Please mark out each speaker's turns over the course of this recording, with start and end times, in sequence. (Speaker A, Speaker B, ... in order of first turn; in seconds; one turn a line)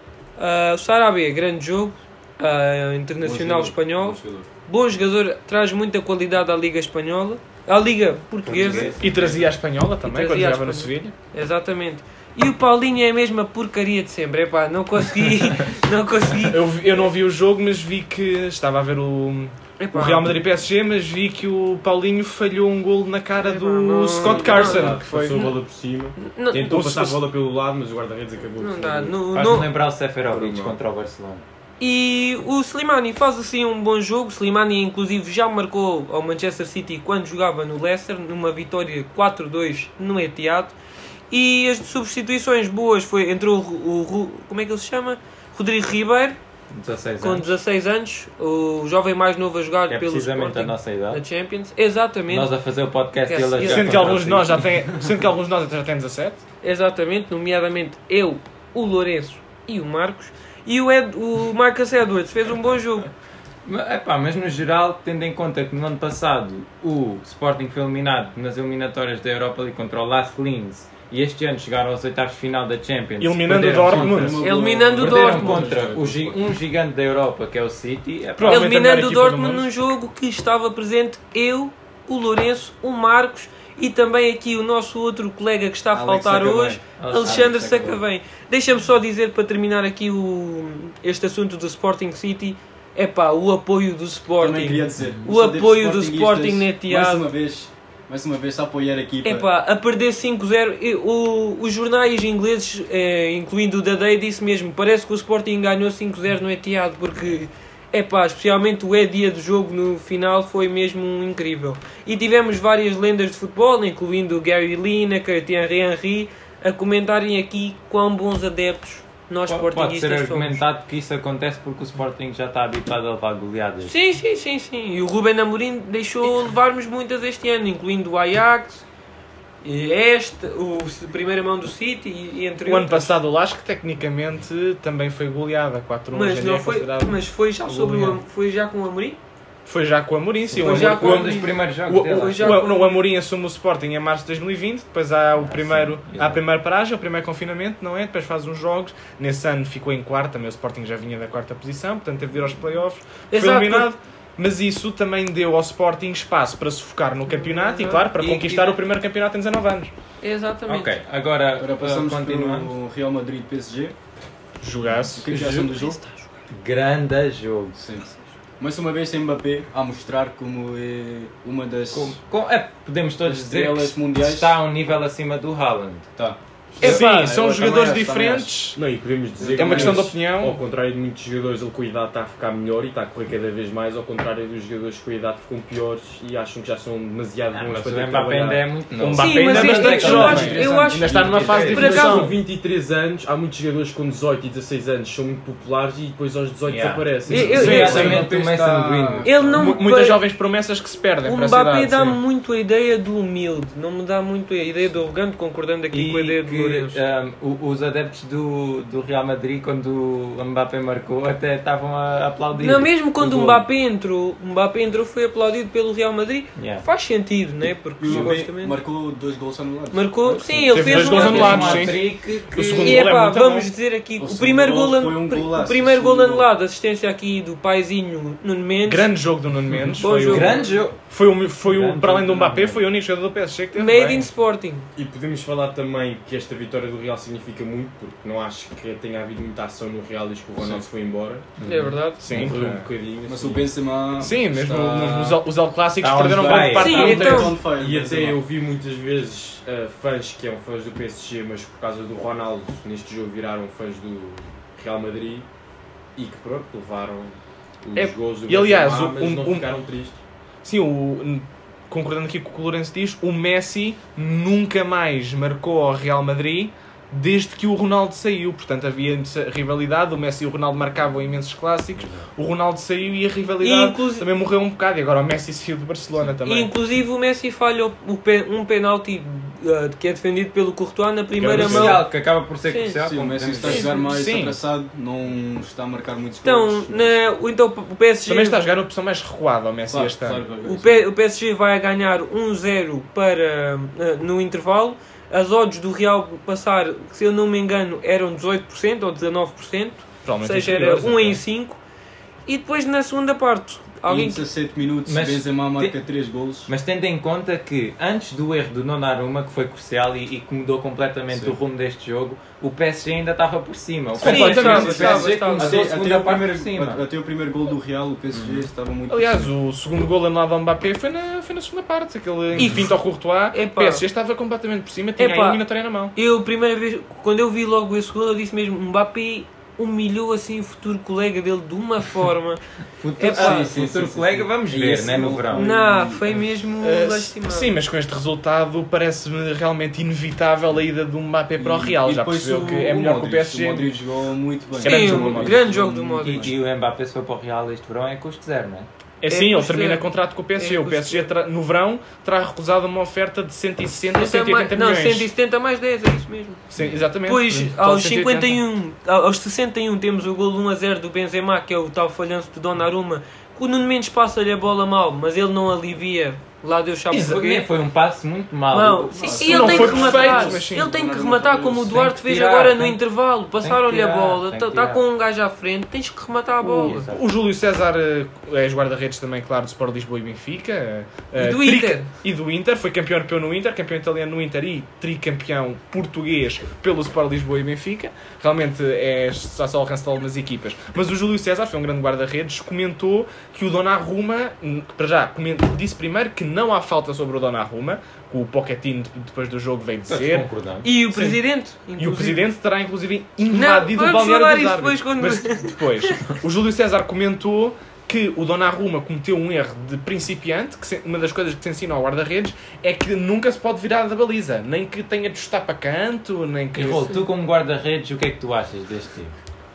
Speaker A: 0.4-9.0
Speaker B: 3.2-4.5
Speaker C: 8.4-9.5
Speaker D: 8.9-11.1
Speaker A: 10.0-16.7
Speaker D: 16.4-25.5
Speaker A: 19.8-20.4
Speaker A: 23.3-25.5
Speaker E: 24.2-29.2
Speaker A: 26.2-27.1
Speaker D: 26.7-27.1
Speaker A: 28.6-29.7
Speaker C: 29.3-31.4
Speaker E: 30.3-30.8
Speaker A: 31.8-40.7
Speaker A: 41.3-46.4
Speaker C: 46.7-47.5
Speaker A: 47.2-52.5
Speaker C: 49.9-51.2
Speaker C: 52.3-55.1
Speaker A: 53.3-54.2
Speaker D: 53.6-56.4
Speaker A: 56.6-63.1
Speaker C: 63.6-78.7
Speaker D: 73.2-74.4
Speaker B: 73.8-76.4
Speaker A: 74.4-75.8
Speaker D: 78.4-79.7
Speaker A: 78.4-97.3
Speaker B: 85.9-88.0
Speaker C: 87.0-88.0
Speaker B: 94.4-99.5
Speaker C: 95.0-95.2
Speaker A: 99.2-120.6
Speaker C: 119.5-123.9
Speaker A: 123.8-128.8
Speaker A: 129.6-133.1
Speaker D: 132.7-138.2
Speaker A: 136.1-139.2
Speaker D: 139.7-159.9
Speaker C: 140.5-142.6
Speaker A: 140.6-142.9
Speaker C: 145.4-146.4
Speaker A: 153.3-153.9
Speaker A: 157.3-158.1
Speaker C: 158.2-158.8
Speaker A: 160.2-160.9
Speaker C: 160.7-162.7
Speaker B: 161.6-163.9
Speaker D: 164.6-165.3
Speaker B: 164.9-166.0
Speaker C: 165.3-165.7
Speaker A: 165.6-166.2
Speaker C: 166.5-167.8
Speaker B: 167.7-172.2
Speaker C: 171.9-176.1
Speaker B: 173.2-174.6
Speaker B: 176.2-178.6
Speaker D: 176.8-178.8
Speaker E: 178.7-188.6
Speaker B: 179.4-180.2
Speaker D: 179.5-180.6
Speaker C: 187.5-192.1
Speaker D: 189.0-192.3
Speaker A: 189.1-192.3
Speaker E: 190.8-198.3
Speaker C: 196.7-199.4
Speaker A: 197.3-198.2
Speaker B: 197.5-199.8
Speaker D: 197.6-198.2
Speaker A: 199.2-200.2
Speaker D: 199.5-202.2
Speaker A: 201.2-207.0
Speaker C: 205.9-213.6
Speaker A: 212.6-218.8
Speaker C: 216.6-216.8
Speaker B: 218.0-221.5
Speaker A: 219.9-222.0
Speaker D: 220.7-223.7
Speaker C: 220.7-223.1
Speaker A: 222.7-229.1
Speaker B: 224.2-226.5
Speaker D: 228.8-234.3
Speaker C: 229.7-231.0
Speaker A: 230.0-230.8
Speaker C: 231.6-232.8
Speaker A: 233.7-234.8
Speaker E: 234.9-241.4
Speaker C: 241.6-242.5
Speaker A: 241.6-242.3
Speaker D: 242.2-242.9
Speaker E: 242.3-243.7
Speaker B: 243.2-245.4
Speaker D: 244.2-247.5
Speaker C: 246.0-247.5
Speaker B: 246.3-248.4
Speaker A: 246.7-247.6
Speaker E: 247.7-255.5
Speaker E: 256.1-260.2
Speaker D: 258.4-259.7
Speaker D: 260.6-276.7
Speaker A: 273.6-274.3
Speaker A: 276.4-282.1
Speaker D: 281.4-282.0
Speaker C: 281.5-284.0
Speaker A: 282.6-283.0
Speaker B: 283.0-287.2
Speaker A: 283.6-284.0
Speaker D: 283.9-284.6
Speaker A: 286.4-288.6
Speaker D: 288.2-290.4
Speaker B: 289.9-291.1
Speaker A: 290.6-301.8
Speaker D: 300.2-301.4
Speaker A: 302.4-304.4
Speaker B: 304.1-306.7
Speaker C: 305.1-305.9
Speaker C: 306.6-317.0
Speaker B: 311.3-311.6
Speaker D: 314.2-315.3
Speaker A: 314.2-315.9
Speaker B: 314.3-319.5
Speaker C: 318.3-318.6
Speaker D: 319.1-326.1
Speaker A: 322.6-322.9
Speaker A: 323.5-324.1
Speaker A: 325.2-332.6
Speaker C: 333.0-335.7
Speaker A: 333.2-333.7
Speaker B: 333.2-336.4
Speaker A: 335.5-337.7
Speaker D: 336.8-343.9
Speaker B: 341.6-346.5
Speaker D: 344.8-345.6
Speaker A: 344.8-346.5
Speaker C: 346.2-348.9
Speaker D: 349.2-355.3
Speaker A: 349.3-351.3
Speaker A: 354.1-356.6
Speaker D: 356.7-358.6
Speaker A: 357.2-367.7
Speaker D: 367.1-367.4
Speaker C: 367.2-369.9
Speaker A: 368.7-377.1
Speaker B: 369.1-372.0
Speaker D: 369.4-370.9
Speaker C: 371.9-375.0
Speaker C: 376.6-377.3
Speaker D: 376.8-400.5
Speaker A: 381.4-382.1
Speaker C: 400.1-400.9
Speaker A: 400.8-402.5
Speaker D: 401.1-401.4
Speaker D: 402.0-417.1
Speaker A: 403.5-406.2
Speaker C: 416.7-419.3